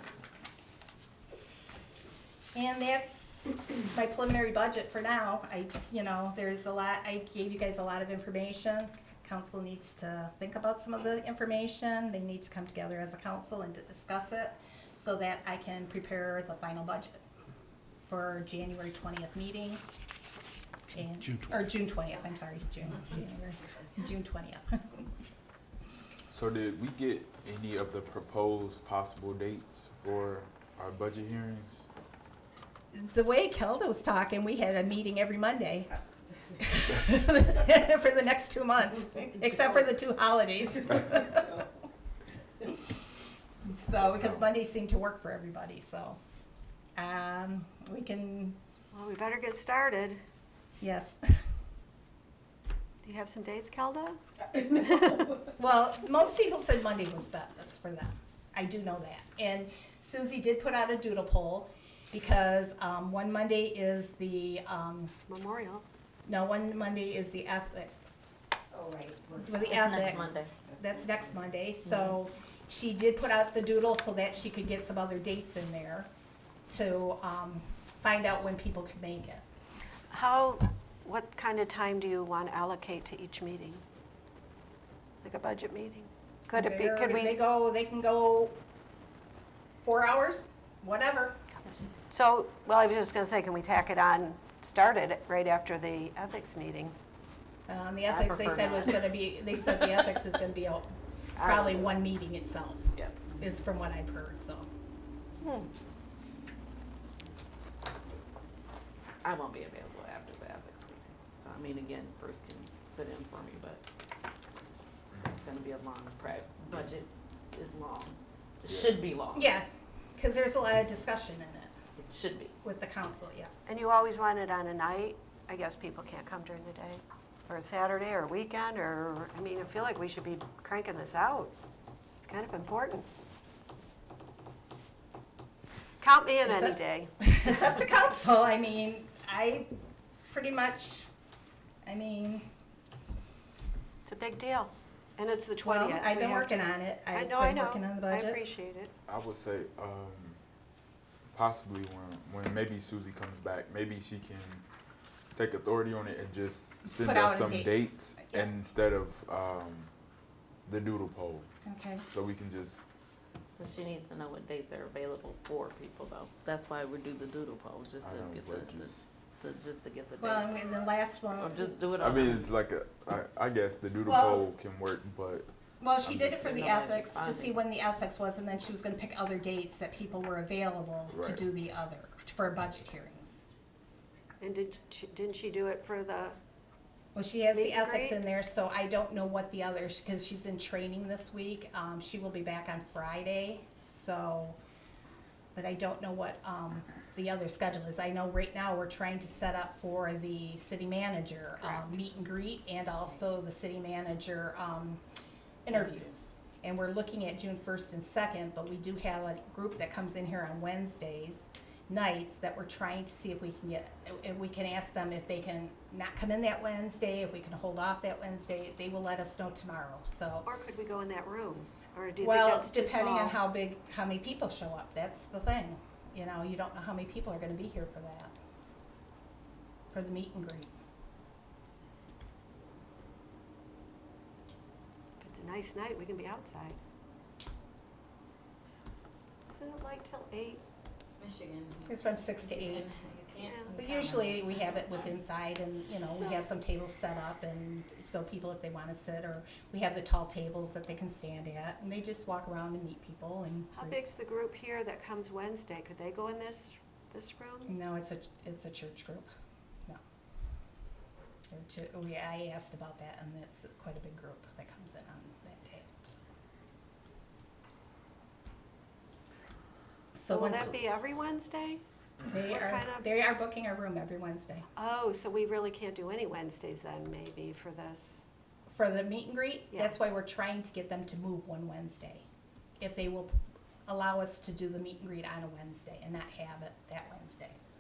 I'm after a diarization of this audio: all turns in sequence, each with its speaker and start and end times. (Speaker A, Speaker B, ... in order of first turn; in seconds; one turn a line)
Speaker A: 2.5-17.2
Speaker A: 18.1-19.8
Speaker A: 20.9-25.1
Speaker B: 26.3-31.9
Speaker A: 32.9-35.9
Speaker A: 36.6-41.7
Speaker A: 42.6-46.2
Speaker B: 44.1-44.4
Speaker A: 47.0-48.6
Speaker C: 48.9-50.2
Speaker A: 50.8-51.4
Speaker C: 53.0-55.3
Speaker A: 55.4-65.1
Speaker C: 65.3-65.8
Speaker A: 66.3-68.3
Speaker D: 68.7-69.9
Speaker A: 69.4-76.1
Speaker E: 69.7-70.5
Speaker E: 71.8-72.1
Speaker A: 76.7-79.4
Speaker C: 80.1-83.8
Speaker C: 85.2-87.4
Speaker A: 86.5-88.6
Speaker A: 89.8-91.4
Speaker C: 92.1-97.0
Speaker A: 97.7-104.7
Speaker E: 98.0-99.1
Speaker E: 101.4-102.0
Speaker C: 105.4-105.7
Speaker E: 109.2-113.8
Speaker E: 115.2-119.5
Speaker B: 118.7-119.0
Speaker A: 119.3-121.7
Speaker E: 122.0-122.5
Speaker A: 122.6-123.7
Speaker C: 123.7-131.5
Speaker C: 132.3-133.1
Speaker C: 136.0-137.2
Speaker A: 136.4-139.7
Speaker A: 140.3-141.1
Speaker A: 141.8-142.5
Speaker C: 144.1-148.9
Speaker A: 145.6-148.4
Speaker B: 149.1-150.4
Speaker B: 151.3-154.6
Speaker B: 155.3-159.9
Speaker A: 156.9-158.5
Speaker B: 160.7-161.5
Speaker A: 161.7-162.0
Speaker B: 162.1-162.8
Speaker E: 163.6-170.5
Speaker B: 168.0-169.1
Speaker A: 170.2-171.8
Speaker E: 171.4-172.5
Speaker B: 171.9-175.5
Speaker A: 174.1-174.4
Speaker A: 175.8-183.4
Speaker B: 176.0-176.4
Speaker E: 176.3-177.6
Speaker B: 181.1-181.4
Speaker C: 184.4-186.4
Speaker A: 187.2-194.6
Speaker C: 187.5-188.2
Speaker A: 195.6-205.0
Speaker A: 205.7-220.5
Speaker C: 220.4-223.4
Speaker A: 222.2-228.4
Speaker A: 229.9-230.7
Speaker C: 235.2-236.8
Speaker C: 239.5-240.6
Speaker D: 241.2-241.9
Speaker A: 241.8-242.9
Speaker D: 242.6-243.5
Speaker C: 243.3-243.7
Speaker A: 243.7-254.0
Speaker C: 246.2-246.5
Speaker C: 253.7-257.7
Speaker A: 257.7-259.3
Speaker A: 261.5-266.2
Speaker A: 270.2-270.8
Speaker C: 270.3-273.1
Speaker A: 272.3-274.7
Speaker C: 274.8-278.2
Speaker A: 278.7-282.2
Speaker C: 279.7-280.0
Speaker A: 282.8-283.3
Speaker A: 283.9-287.6